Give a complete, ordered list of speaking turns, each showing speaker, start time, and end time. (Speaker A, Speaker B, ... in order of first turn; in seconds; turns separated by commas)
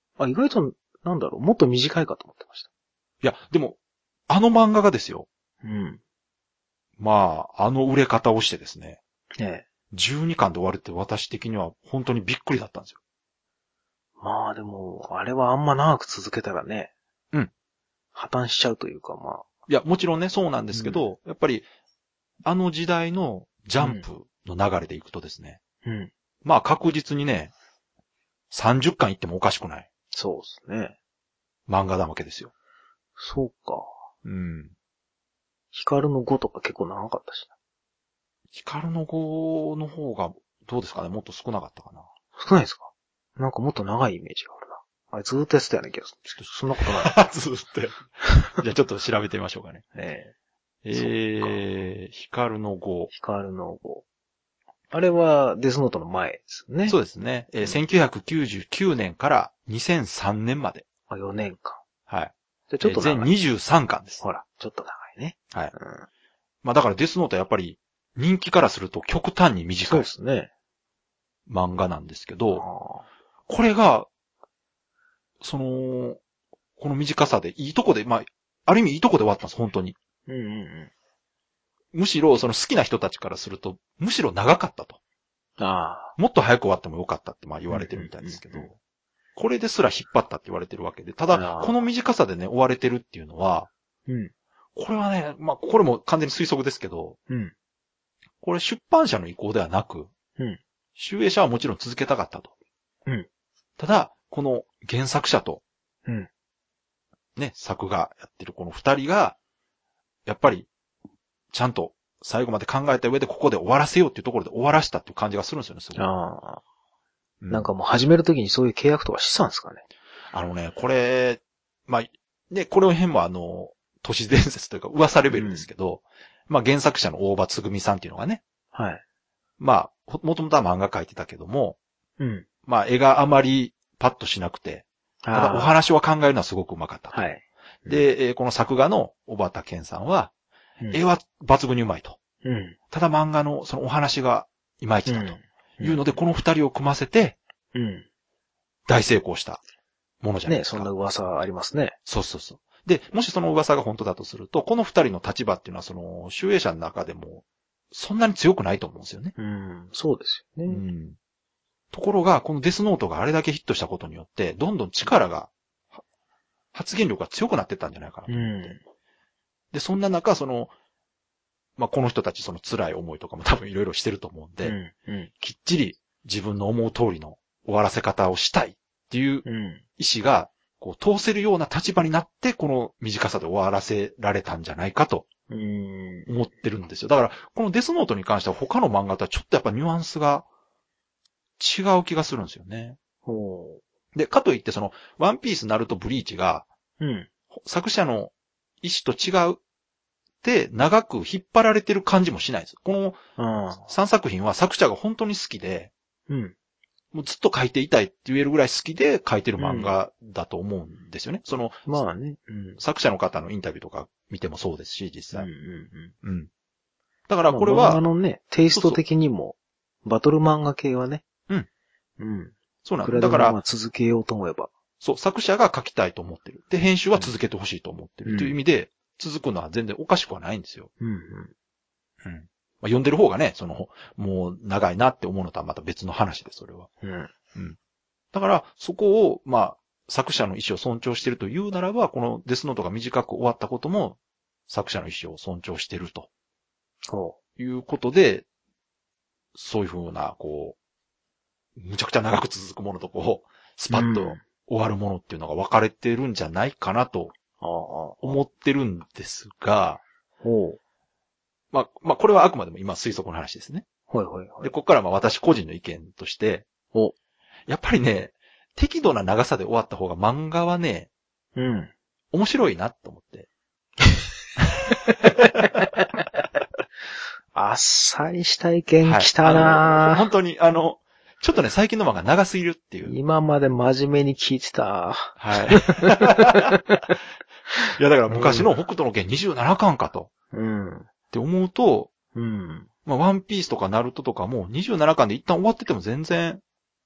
Speaker A: 0.2-2.7, Speaker B: 3.2-3.8, Speaker B: 4.3-5.3, Speaker A: 5.6-6.0, Speaker B: 7.0-9.0, Speaker A: 9.4-9.7, Speaker B: 9.9-13.0, Speaker A: 14.2-16.9, Speaker A: 18.1-19.4, Speaker B: 19.7-21.7, Speaker A: 20.7-21.0, Speaker B: 22.4-25.6, Speaker A: 23.8-24.0, Speaker A: 25.8-26.1, Speaker B: 26.4-27.5, Speaker B: 28.5-29.9, Speaker A: 30.1-30.9, Speaker B: 31.7-32.5, Speaker A: 33.2-33.9, Speaker B: 34.2-34.7, Speaker A: 35.7-37.5, Speaker B: 38.5-42.1, Speaker A: 42.4-47.2, Speaker B: 46.8-49.8, Speaker A: 49.9-50.3, Speaker B: 50.8-53.1, Speaker A: 50.9-51.6, Speaker A: 53.1-54.0, Speaker A: 54.9-57.0, Speaker B: 56.9-60.9, Speaker A: 61.1-61.8, Speaker B: 62.1-64.2, Speaker A: 62.7-63.3, Speaker A: 64.2-66.1, Speaker B: 66.6-70.1, Speaker A: 69.9-70.5, Speaker B: 71.5-72.6, Speaker A: 72.5-73.0, Speaker B: 73.5-74.1, Speaker B: 75.4-76.2, Speaker B: 76.8-80.0, Speaker A: 80.3-80.9, Speaker B: 81.9-85.0, Speaker A: 85.6-86.2, Speaker B: 86.2-88.8, Speaker A: 87.7-88.7, Speaker B: 89.3-93.7, Speaker A: 91.3-91.8, Speaker A: 94.1-94.3, Speaker B: 94.8-97.2, Speaker A: 97.3-97.5, Speaker B: 98.4-100.1, Speaker B: 101.0-102.5, Speaker B: 103.8-105.6, Speaker B: 107.3-109.4, Speaker B: 110.2-110.7, Speaker B: 111.5-116.0, Speaker A: 116.0-116.6, Speaker B: 117.4-117.7, Speaker A: 117.5-119.8, Speaker B: 120.3-128.4, Speaker A: 125.3-125.7, Speaker A: 128.7-129.0, Speaker B: 129.6-131.8, Speaker A: 132.2-132.5, Speaker B: 132.7-137.2, Speaker A: 135.2-135.8, Speaker A: 137.1-138.0, Speaker B: 137.8-140.3, Speaker B: 140.9-142.2, Speaker A: 142.4-142.8, Speaker B: 142.9-147.4, Speaker A: 145.1-146.0, Speaker A: 147.7-148.1, Speaker B: 148.9-149.6, Speaker B: 150.2-150.9, Speaker A: 150.4-151.9, Speaker B: 152.1-159.3, Speaker A: 159.4-160.8, Speaker B: 160.7-161.2, Speaker B: 161.9-165.5, Speaker B: 166.7-168.6, Speaker A: 168.3-168.8, Speaker B: 169.7-170.7, Speaker B: 171.8-174.8, Speaker A: 174.6-175.3, Speaker B: 175.4-179.4, Speaker A: 179.4-179.8, Speaker B: 180.0-185.3, Speaker A: 185.5-186.3, Speaker B: 186.3-190.5, Speaker B: 191.6-193.0, Speaker A: 193.2-193.8, Speaker B: 194.1-196.7, Speaker A: 197.0-197.3, Speaker B: 197.5-199.6, Speaker B: 200.4-203.2, Speaker A: 203.4-203.9, Speaker B: 203.9-205.9, Speaker A: 206.3-206.5, Speaker B: 207.1-212.0, Speaker A: 209.6-209.9, Speaker A: 211.9-212.8, Speaker B: 212.8-215.5, Speaker A: 215.3-216.1, Speaker B: 216.2-216.5, Speaker B: 217.3-218.0, Speaker A: 217.5-221.2, Speaker B: 218.7-219.0, Speaker A: 222.2-224.7, Speaker B: 222.8-223.6, Speaker B: 225.0-230.9, Speaker A: 228.2-228.6, Speaker A: 231.0-231.5, Speaker B: 232.2-236.9, Speaker A: 237.0-237.3, Speaker B: 238.3-246.3, Speaker A: 247.1-247.4, Speaker B: 247.6-248.4, Speaker B: 249.5-250.8, Speaker B: 251.8-257.3, Speaker A: 253.9-254.4, Speaker A: 257.6-258.4, Speaker B: 258.2-260.0, Speaker A: 260.4-260.8, Speaker B: 261.7-263.9, Speaker A: 264.1-264.7, Speaker B: 264.6-266.7, Speaker B: 267.7-271.1, Speaker A: 271.6-271.9, Speaker B: 272.3-273.5, Speaker B: 275.2-275.6, Speaker A: 277.5-280.2, Speaker B: 279.0-283.1, Speaker A: 283.0-287.1, Speaker B: 285.4-286.8, Speaker B: 288.0-290.3, Speaker A: 288.3-288.7, Speaker A: 290.5-291.1, Speaker B: 291.3-292.1, Speaker A: 292.3-292.9, Speaker B: 293.0-296.6